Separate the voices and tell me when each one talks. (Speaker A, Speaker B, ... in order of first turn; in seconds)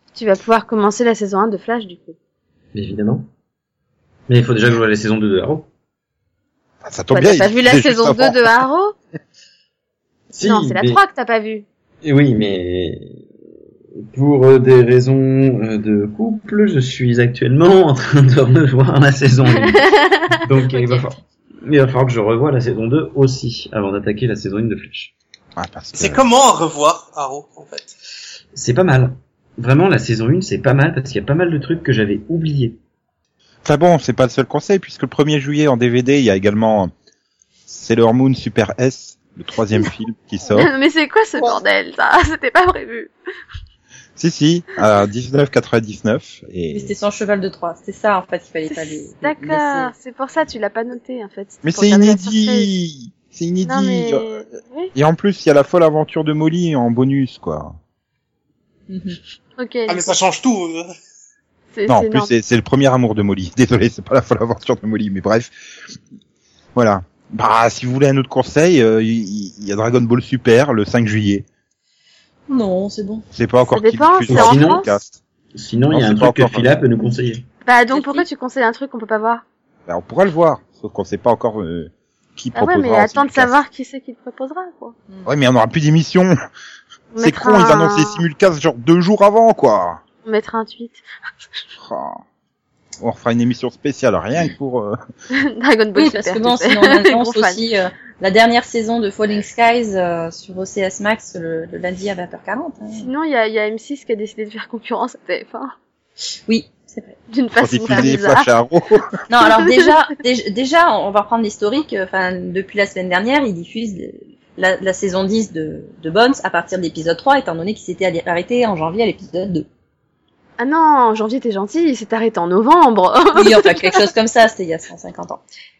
Speaker A: 0.1-2.1, 7.1-8.9, 10.4-11.6, 19.7-21.0, 40.5-43.1, 48.7-52.7, 53.6-54.9, 59.6-60.1, 61.7-62.3, 73.6-74.9, 77.6-79.4, 82.5-84.9, 87.1-88.2, 90.2-91.0, 95.3-97.6, 103.0-105.7, 107.3-108.5, 120.6-124.0
Speaker B: 2.7-3.2, 4.3-5.7, 10.3-11.0, 12.0-13.2, 14.1-25.1, 28.5-32.8, 74.3-74.8, 75.5-77.4
Speaker C: 6.8-8.5, 25.6-26.2, 33.6-36.9, 37.7-40.7, 44.2-46.9, 51.6-54.2, 54.9-57.8, 61.9-65.5, 66.7-71.4, 73.3-75.2, 75.9-76.7, 79.9-83.5, 85.2-86.3, 87.2-90.0, 91.8-92.2, 93.0-95.0, 107.6-109.2
Speaker D: 26.0-27.9, 59.9-60.9
Speaker E: 46.7-49.9, 58.9-59.2, 72.5-73.2, 77.9-78.2, 96.0-103.1, 106.5-107.2, 109.3-119.7, 123.3-125.4